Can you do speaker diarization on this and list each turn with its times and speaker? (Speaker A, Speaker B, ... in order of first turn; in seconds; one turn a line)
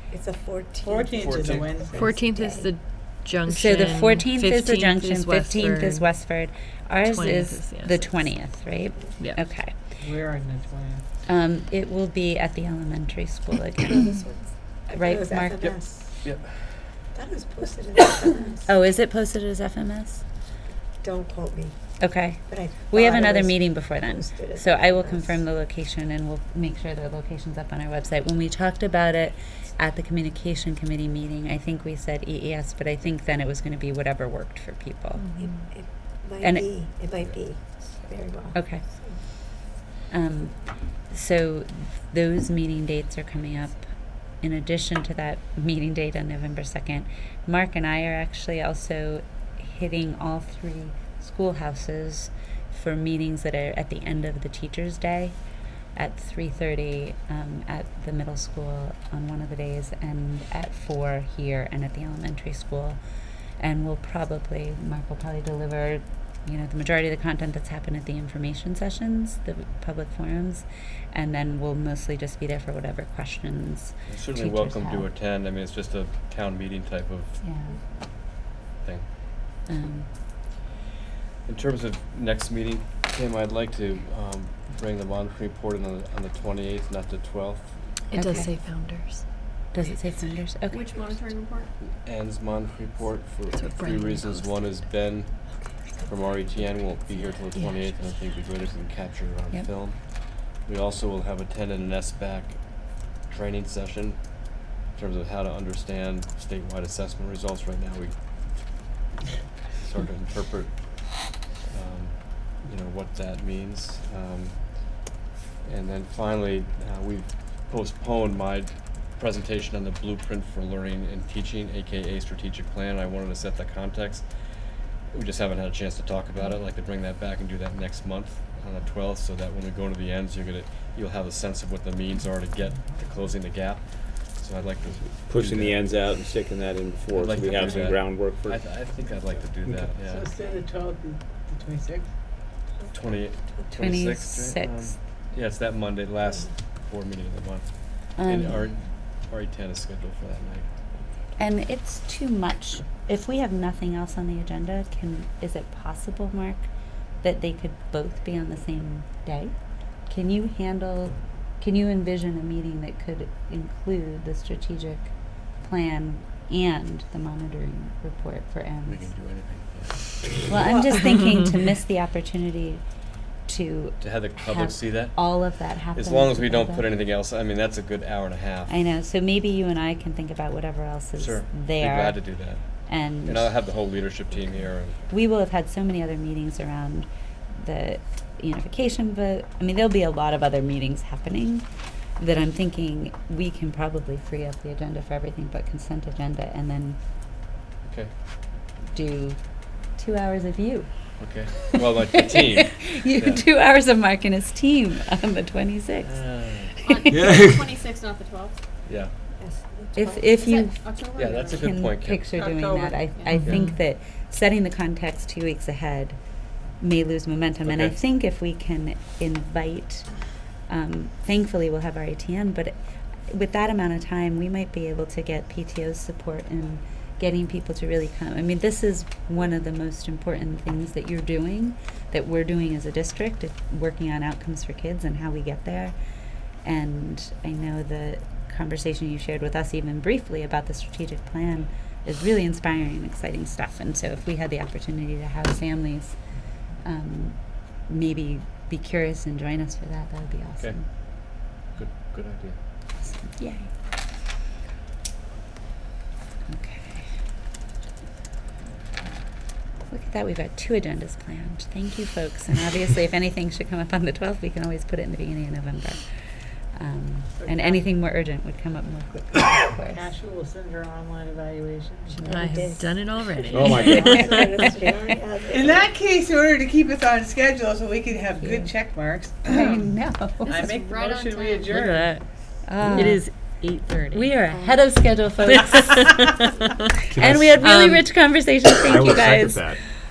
Speaker A: 0.1-1.6
Speaker B: 0.8-2.1
Speaker C: 1.2-2.0
Speaker D: 1.9-6.1
Speaker A: 2.2-2.7
Speaker E: 3.5-9.7
Speaker D: 7.0-8.6
Speaker B: 10.0-11.0
Speaker E: 11.2-14.2
Speaker A: 14.1-16.1
Speaker E: 14.9-15.8
Speaker C: 15.6-16.6
Speaker A: 17.1-18.6
Speaker E: 18.6-20.2
Speaker A: 21.0-25.3
Speaker E: 22.0-35.3
Speaker D: 35.1-35.7
Speaker A: 35.4-38.5
Speaker E: 36.4-36.7
Speaker E: 38.5-38.8
Speaker E: 40.1-55.3
Speaker E: 55.9-63.0
Speaker E: 63.6-75.1
Speaker C: 74.1-77.4
Speaker E: 77.4-77.8
Speaker E: 79.7-80.1
Speaker C: 81.4-87.8
Speaker D: 88.1-89.2
Speaker E: 88.1-88.5
Speaker E: 89.7-90.8
Speaker F: 90.7-91.7
Speaker C: 91.8-108.2
Speaker D: 93.5-94.6
Speaker D: 97.5-97.8
Speaker C: 109.8-115.0
Speaker C: 115.6-124.3
Speaker C: 125.1-135.8
Speaker G: 135.3-138.8
Speaker C: 137.1-140.3
Speaker B: 140.1-142.1
Speaker C: 142.9-150.7
Speaker E: 143.8-144.9
Speaker E: 148.2-148.7
Speaker E: 151.4-156.7
Speaker E: 157.2-159.5
Speaker E: 160.1-169.1
Speaker C: 168.8-170.4
Speaker E: 170.4-172.8
Speaker A: 170.5-171.0
Speaker E: 173.4-176.8
Speaker C: 174.0-175.3
Speaker C: 175.9-178.7
Speaker E: 178.7-182.3
Speaker C: 181.2-182.6
Speaker E: 182.8-183.5
Speaker C: 183.2-185.0
Speaker E: 185.1-191.7
Speaker E: 192.2-197.0
Speaker C: 197.8-198.1
Speaker E: 198.9-200.9
Speaker C: 201.2-203.5
Speaker E: 202.6-206.2
Speaker C: 206.0-206.8
Speaker F: 206.8-208.6
Speaker E: 206.9-207.3
Speaker C: 208.8-209.1
Speaker A: 209.4-210.1
Speaker E: 209.9-216.2
Speaker F: 210.1-211.8
Speaker C: 211.1-212.3
Speaker B: 212.3-213.1
Speaker D: 213.3-213.8
Speaker E: 216.8-222.7
Speaker C: 217.6-218.0
Speaker E: 223.3-235.9
Speaker E: 236.6-246.2
Speaker E: 246.8-250.8
Speaker C: 251.7-252.6
Speaker E: 253.2-253.7
Speaker E: 256.5-257.0
Speaker E: 259.9-270.1
Speaker B: 267.4-267.8
Speaker B: 269.9-272.2
Speaker A: 272.2-273.0
Speaker D: 272.2-274.6
Speaker A: 273.5-275.9
Speaker G: 273.5-274.4
Speaker B: 275.5-279.8
Speaker E: 278.3-278.7
Speaker E: 279.3-280.7
Speaker F: 280.5-281.7
Speaker B: 280.5-282.2
Speaker D: 281.7-282.2
Speaker E: 282.6-283.3
Speaker D: 282.9-284.3
Speaker E: 284.1-286.4
Speaker A: 284.5-284.8
Speaker G: 287.1-287.7
Speaker E: 287.1-289.8
Speaker D: 287.6-288.1
Speaker G: 288.9-289.8